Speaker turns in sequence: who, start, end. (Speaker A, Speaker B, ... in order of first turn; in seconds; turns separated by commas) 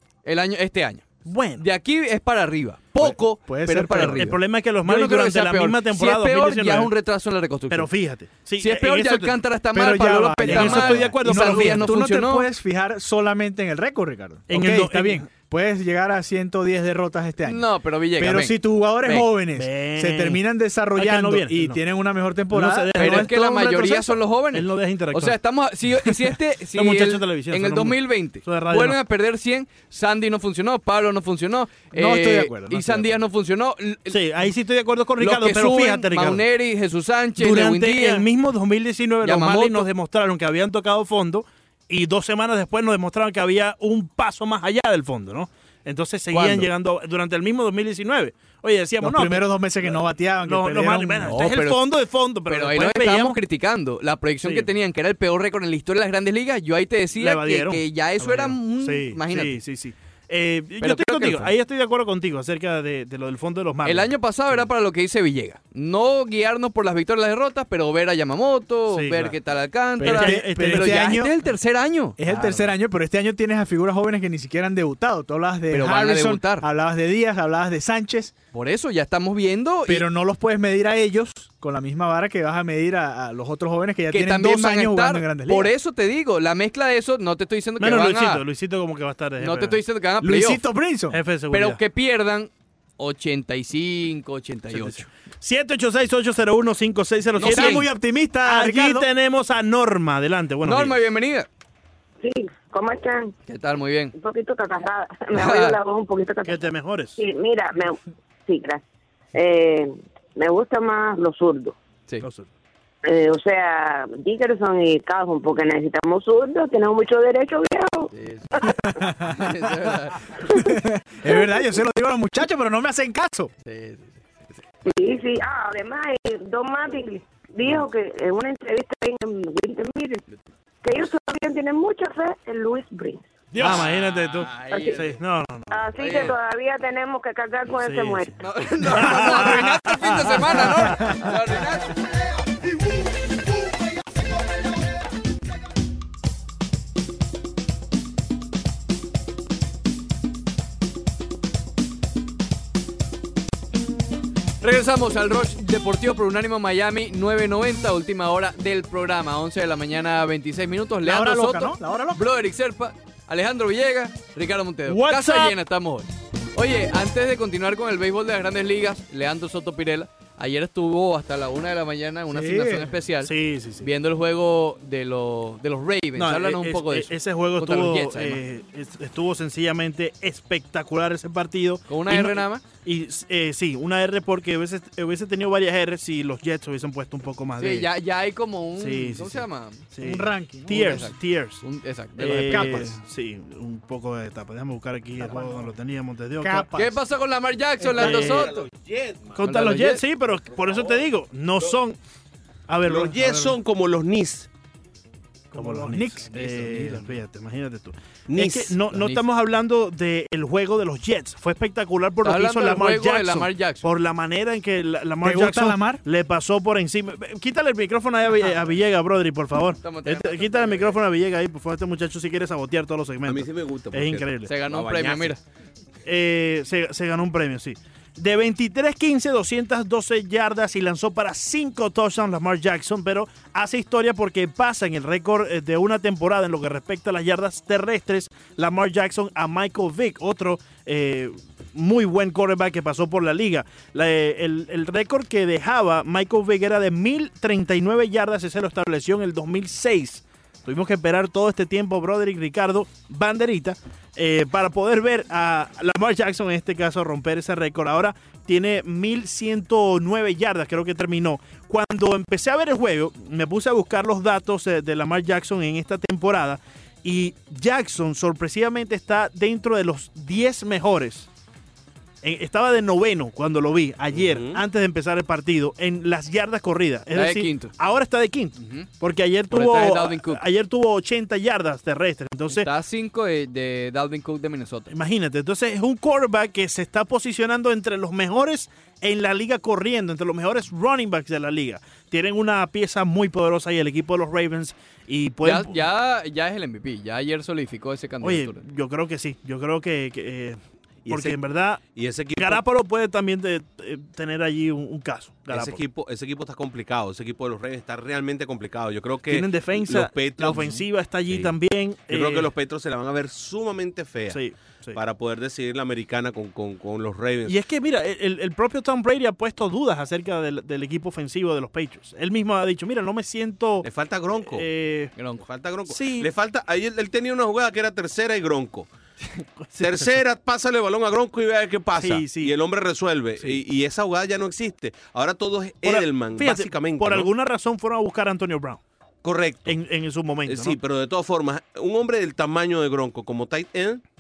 Speaker A: 0.2-7.9, Speaker B: 1.2-1.6, Speaker C: 3.0-4.4, Speaker B: 4.0-6.9, Speaker B: 7.7-9.4, Speaker A: 8.6-12.5, Speaker C: 9.7-24.1, Speaker B: 10.4-11.9, Speaker B: 14.5-15.3, Speaker A: 17.4-19.3, Speaker B: 19.6-20.4, Speaker B: 20.9-21.8, Speaker B: 22.5-24.0, Speaker A: 23.0-34.2, Speaker B: 24.5-25.4, Speaker B: 26.7-29.0, Speaker C: 31.9-33.2, Speaker B: 34.1-36.5, Speaker A: 35.2-38.3, Speaker B: 37.4-49.9, Speaker A: 39.2-39.9, Speaker A: 46.3-46.7, Speaker C: 49.0-51.5, Speaker B: 50.4-53.4, Speaker A: 51.2-51.8, Speaker A: 52.5-59.6, Speaker B: 54.4-54.7, Speaker B: 57.2-64.1, Speaker A: 60.8-61.5, Speaker A: 63.8-72.2, Speaker B: 68.9-69.4, Speaker C: 70.0-71.4, Speaker B: 70.0-71.2, Speaker C: 72.2-78.3, Speaker B: 72.3-72.6, Speaker A: 75.7-76.7, Speaker A: 78.5-80.1, Speaker C: 79.9-85.7, Speaker A: 84.1-88.4, Speaker B: 87.8-89.8, Speaker A: 89.4-90.6, Speaker C: 90.2-91.2, Speaker B: 91.1-91.8, Speaker A: 91.5-95.1, Speaker B: 94.7-97.9, Speaker A: 97.4-97.9, Speaker C: 97.4-99.1, Speaker B: 98.4-101.0, Speaker A: 100.6-101.5, Speaker D: 102.2-103.3, Speaker A: 103.5-104.1, Speaker D: 104.2-108.8, Speaker A: 105.3-105.8, Speaker B: 106.5-107.2, Speaker D: 109.3-111.8, Speaker B: 112.2-112.5, Speaker D: 113.0-119.0, Speaker A: 118.1-120.4, Speaker C: 118.8-119.7, Speaker C: 120.4-123.5, Speaker A: 123.7-124.6, Speaker D: 124.8-130.2, Speaker D: 130.8-133.2, Speaker A: 133.5-135.2, Speaker C: 133.6-133.8, Speaker B: 133.6-135.9, Speaker D: 134.7-135.1, Speaker D: 135.7-138.5, Speaker A: 136.0-136.4, Speaker B: 137.8-141.2, Speaker A: 138.4-142.0, Speaker A: 154.6-178.4, Speaker C: 161.0-162.3, Speaker B: 164.9-165.6, Speaker C: 172.3-173.0, Speaker B: 173.2-173.9, Speaker B: 176.2-187.9, Speaker A: 181.9-182.6, Speaker A: 187.6-189.8, Speaker B: 188.8-191.6, Speaker C: 190.0-191.1, Speaker A: 190.7-192.9, Speaker B: 192.2-196.7, Speaker C: 192.5-193.0, Speaker C: 195.2-195.7, Speaker C: 196.4-197.0, Speaker A: 196.8-198.6, Speaker E: 197.9-199.4, Speaker B: 197.9-198.7, Speaker B: 199.3-202.0, Speaker A: 199.4-200.0, Speaker E: 200.6-201.0, Speaker B: 202.7-203.6, Speaker E: 202.8-204.5, Speaker C: 205.5-207.1, Speaker B: 205.5-224.5, Speaker E: 208.3-208.6, Speaker A: 208.9-209.2, Speaker A: 212.2-213.9, Speaker C: 215.2-216.0, Speaker A: 219.8-221.0, Speaker E: 223.2-225.4, Speaker A: 224.4-225.4, Speaker B: 226.1-271.3, Speaker B: 272.2-282.7, Speaker E: 274.1-274.6, Speaker A: 277.1-277.7, Speaker A: 278.6-278.9, Speaker A: 279.5-280.4, Speaker A: 282.5-284.9, Speaker B: 284.9-295.8, Speaker A: 295.4-298.6, Speaker B: 298.2-305.8, Speaker E: 301.1-301.4, Speaker E: 301.9-302.6, Speaker E: 305.5-311.5, Speaker B: 309.3-312.5, Speaker E: 312.1-314.4, Speaker B: 314.3-315.0, Speaker E: 314.9-317.6, Speaker B: 317.5-325.1, Speaker E: 323.8-324.7, Speaker A: 325.2-325.4, Speaker E: 325.4-328.9, Speaker B: 325.9-326.3, Speaker B: 329.4-330.1, Speaker E: 329.8-337.3, Speaker B: 332.0-332.6, Speaker B: 335.8-338.8, Speaker E: 339.2-339.7, Speaker B: 339.6-340.8, Speaker E: 340.5-344.0